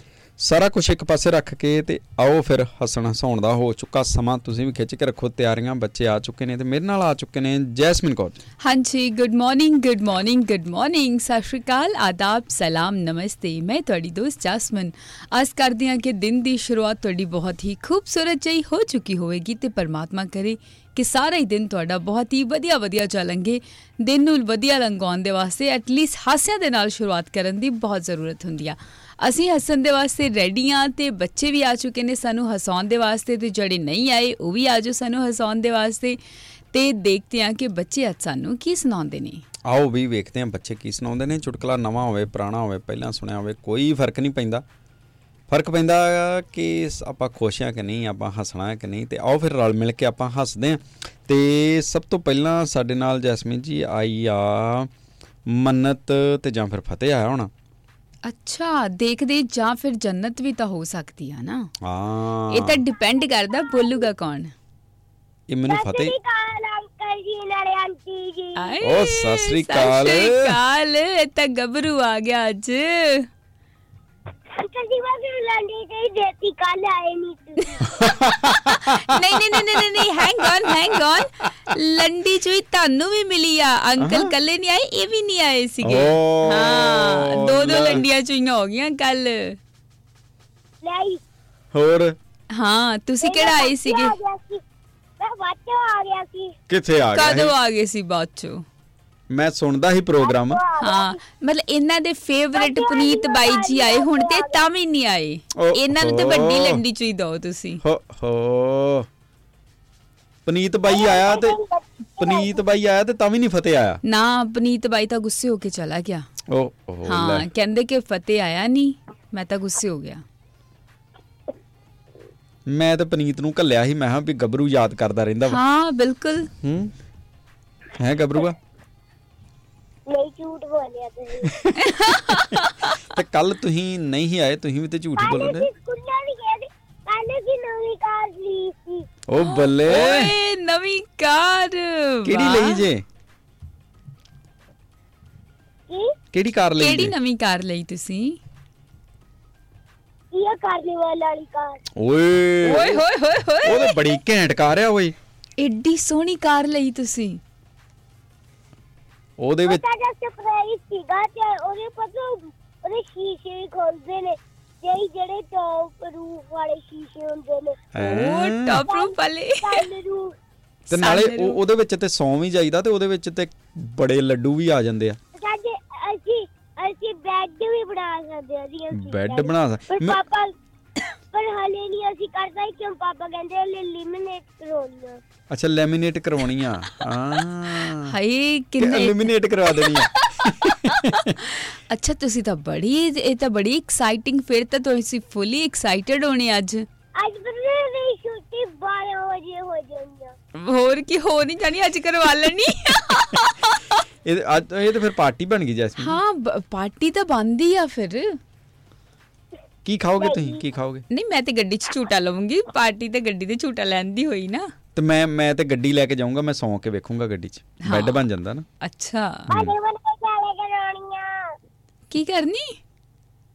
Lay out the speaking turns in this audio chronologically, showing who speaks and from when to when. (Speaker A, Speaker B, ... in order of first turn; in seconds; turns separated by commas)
Speaker A: 0.4-8.4, Speaker B: 8.6-36.2, Speaker B: 36.7-39.4, Speaker A: 39.7-44.6, Speaker A: 45.5-54.9, Speaker A: 55.5-57.5, Speaker B: 58.3-61.7, Speaker A: 61.8-62.8, Speaker B: 62.5-64.5, Speaker A: 65.5-66.1, Speaker C: 65.7-68.7, Speaker B: 68.6-73.3, Speaker A: 68.8-70.5, Speaker C: 74.5-77.8, Speaker A: 78.0-79.2, Speaker B: 78.4-89.6, Speaker A: 84.0-84.3, Speaker A: 85.8-88.0, Speaker C: 90.8-91.2, Speaker A: 91.7-92.2, Speaker B: 92.5-94.2, Speaker C: 93.2-94.6, Speaker C: 95.2-96.5, Speaker A: 96.7-97.5, Speaker B: 97.2-98.6, Speaker A: 99.3-100.6, Speaker C: 100.2-101.2, Speaker B: 100.8-107.8, Speaker C: 102.6-104.6, Speaker A: 105.5-106.8, Speaker A: 107.8-109.1, Speaker A: 110.5-111.5, Speaker C: 110.9-112.6, Speaker A: 112.2-114.0, Speaker B: 114.0-116.3, Speaker A: 116.5-117.5, Speaker B: 117.0-120.2, Speaker A: 122.7-125.6, Speaker B: 125.5-126.5, Speaker A: 126.6-126.9, Speaker A: 128.0-128.6, Speaker C: 130.1-131.6, Speaker A: 131.4-131.7, Speaker B: 131.8-132.9, Speaker A: 133.0-135.7, Speaker C: 135.2-139.1, Speaker A: 139.3-140.3, Speaker B: 139.4-142.8, Speaker A: 142.2-143.0, Speaker C: 145.9-146.1, Speaker A: 146.3-147.1, Speaker B: 146.8-148.4, Speaker C: 150.3-151.8, Speaker A: 151.9-153.0, Speaker B: 152.6-154.0, Speaker A: 153.6-155.2, Speaker B: 155.6-157.4, Speaker A: 159.4-159.8, Speaker C: 159.7-167.8, Speaker A: 167.9-168.8, Speaker B: 168.0-169.8, Speaker C: 168.9-170.3, Speaker B: 170.9-171.6, Speaker A: 170.9-175.2, Speaker C: 175.3-180.5, Speaker A: 178.9-180.2, Speaker C: 181.3-185.2, Speaker A: 185.5-188.1, Speaker B: 188.1-196.8, Speaker A: 188.8-191.3, Speaker C: 197.2-200.3, Speaker B: 200.6-203.9, Speaker A: 204.2-206.2, Speaker B: 206.0-208.4, Speaker A: 209.8-211.0, Speaker C: 210.2-210.6, Speaker B: 211.1-214.7, Speaker A: 214.9-218.7, Speaker B: 217.8-218.2, Speaker B: 218.8-219.5, Speaker A: 219.5-219.7, Speaker C: 219.5-221.3, Speaker B: 222.1-222.8